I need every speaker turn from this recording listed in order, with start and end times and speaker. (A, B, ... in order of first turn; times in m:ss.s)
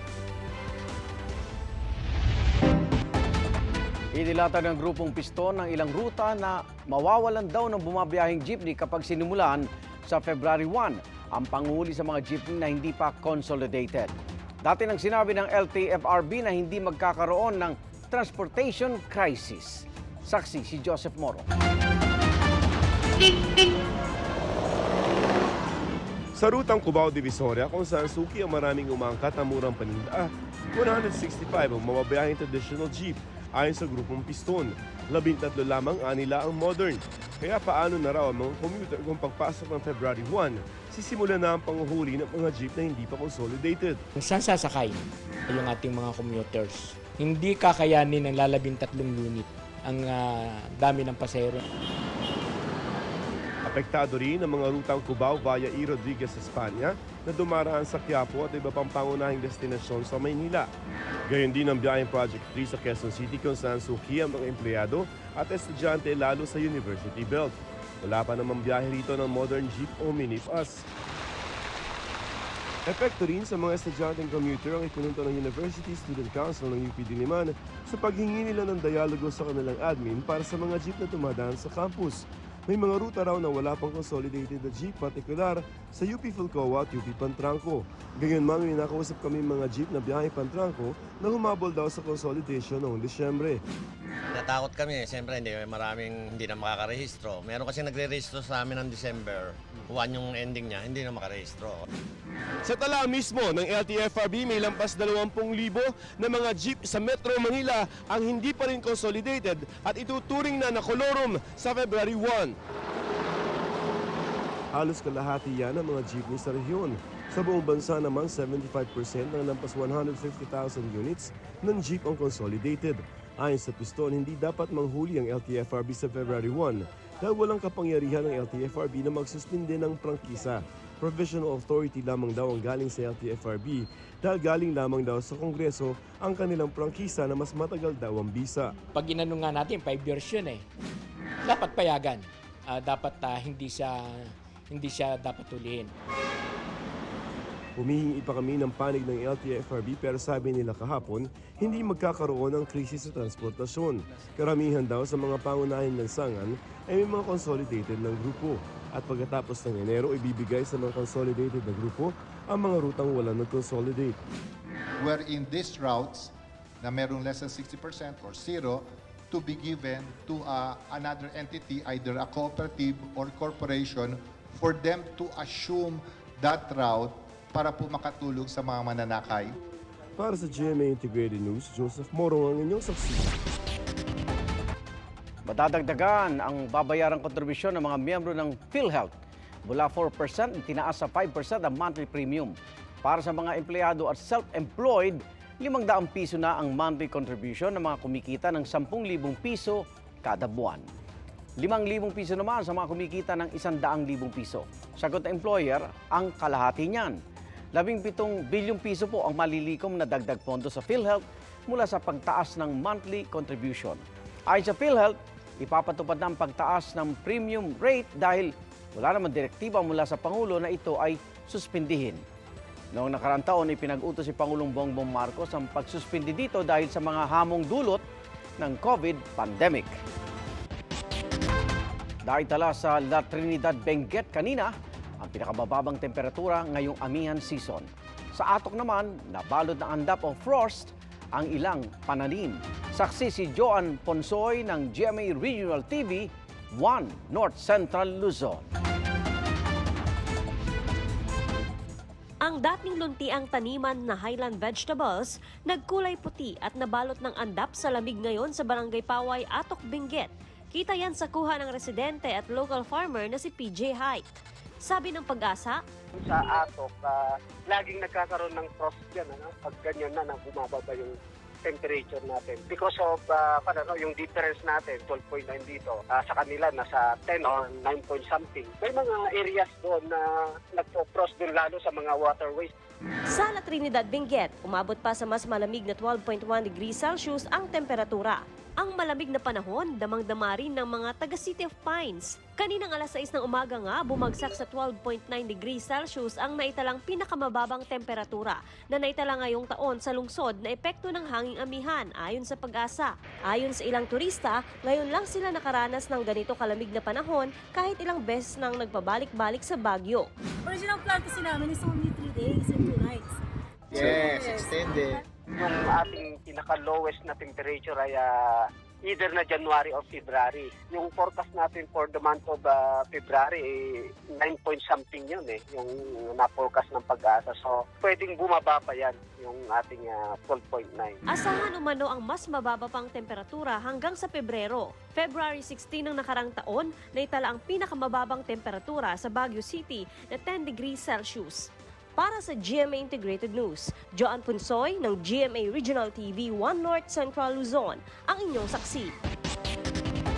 0:04.2-0:21.4 A
0:26.4-0:44.0 B
0:44.2-0:45.0 C
0:45.5-0:51.6 C
0:53.7-1:00.7 B
1:01.3-1:10.8 B
1:12.8-1:33.6 B
1:34.3-1:41.8 D
1:40.1-1:40.5 E
1:42.6-1:52.6 B
1:54.7-2:18.7 B
2:18.9-2:20.6 C
2:21.5-2:24.1 C
2:24.7-2:25.9 C
2:27.8-2:44.2 B
2:45.0-2:46.3 E
2:46.8-2:48.8 E
2:49.3-2:59.5 E
3:00.2-3:03.4 B
3:05.5-3:09.1 A
3:09.7-3:20.8 A
3:21.6-3:27.1 A
3:27.7-3:42.2 A
3:42.9-3:48.0 A
3:48.6-3:49.9 A
3:52.2-4:08.6 A
4:12.4-4:25.8 F
4:26.2-4:42.7 G
4:43.3-5:10.3 F
5:10.7-5:13.2 H
5:13.9-5:15.2 H
5:13.9-5:15.1 D
5:15.6-5:18.3 G
5:19.0-5:23.8 G
5:24.3-5:31.2 G
5:31.3-5:49.1 F